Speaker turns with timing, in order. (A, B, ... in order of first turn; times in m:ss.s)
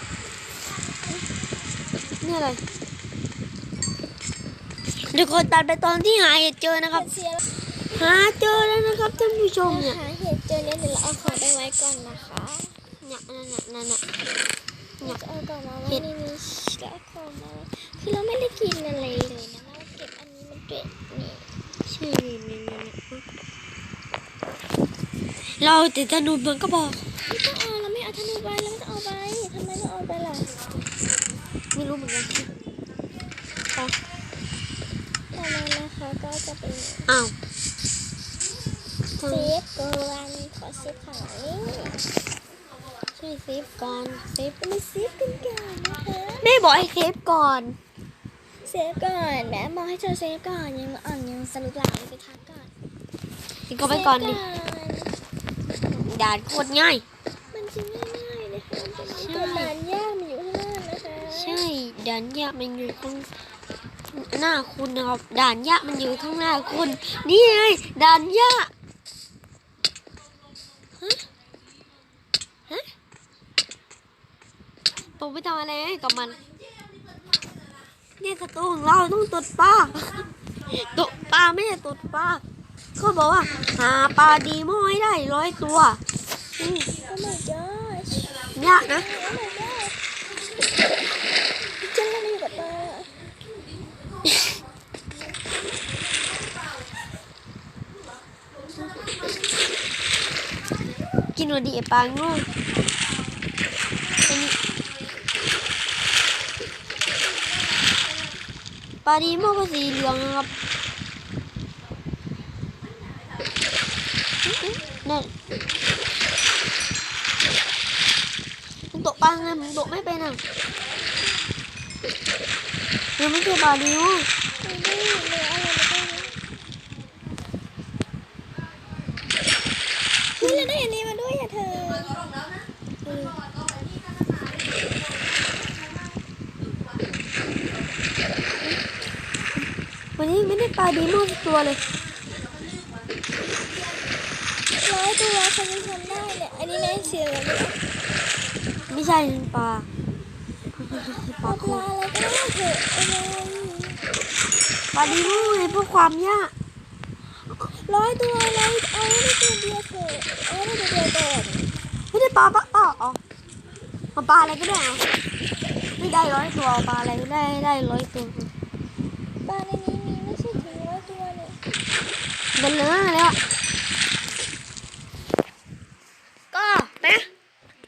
0:02.2-0:02.6 A
0:05.1-0:07.1 A
0:07.0-0:07.4 B
0:08.0-0:10.0 A
0:09.6-0:12.8 B
0:13.0-0:14.0 A
0:15.0-0:21.5 B
0:21.9-0:23.2 A
0:25.6-0:27.0 A
0:27.2-0:30.6 B
0:31.7-0:32.5 A
0:35.3-0:37.1 B
0:37.1-0:37.3 A
0:39.2-0:39.5 A
0:39.2-0:42.0 B
0:43.2-0:44.6 A
0:44.6-0:46.5 B
0:46.4-0:47.8 A
0:48.6-0:52.7 B
0:53.7-0:54.4 A
0:53.8-0:55.1 B
0:55.9-0:57.0 A
0:57.5-1:01.6 B
0:59.2-0:59.7 A
1:01.3-1:03.3 A
1:04.1-1:08.7 A
1:15.2-1:16.4 A
1:18.2-1:22.4 A
1:23.0-1:26.0 A
1:26.6-1:27.0 A
1:27.0-1:30.0 B
1:28.6-1:29.0 A
1:31.7-1:33.2 B
1:41.4-1:42.5 A
1:44.3-1:44.6 A
1:49.0-1:50.5 A
1:54.5-1:55.3 A
1:58.9-2:00.4 A
2:03.2-2:04.3 A
2:04.6-2:06.3 B
2:10.4-2:12.2 B
2:10.4-2:10.7 A
2:13.0-2:13.4 A
2:20.2-2:21.8 A
2:24.7-2:27.8 B
2:28.9-2:29.9 A
2:31.2-2:34.0 B
2:31.3-2:31.8 A
2:34.9-2:36.5 A
2:35.0-2:35.8 B
2:37.5-2:41.7 B
2:42.1-2:43.2 A
2:44.2-2:45.0 A
2:46.0-2:48.5 A
2:49.4-2:51.6 B
2:52.6-2:53.4 A
2:56.5-2:57.3 A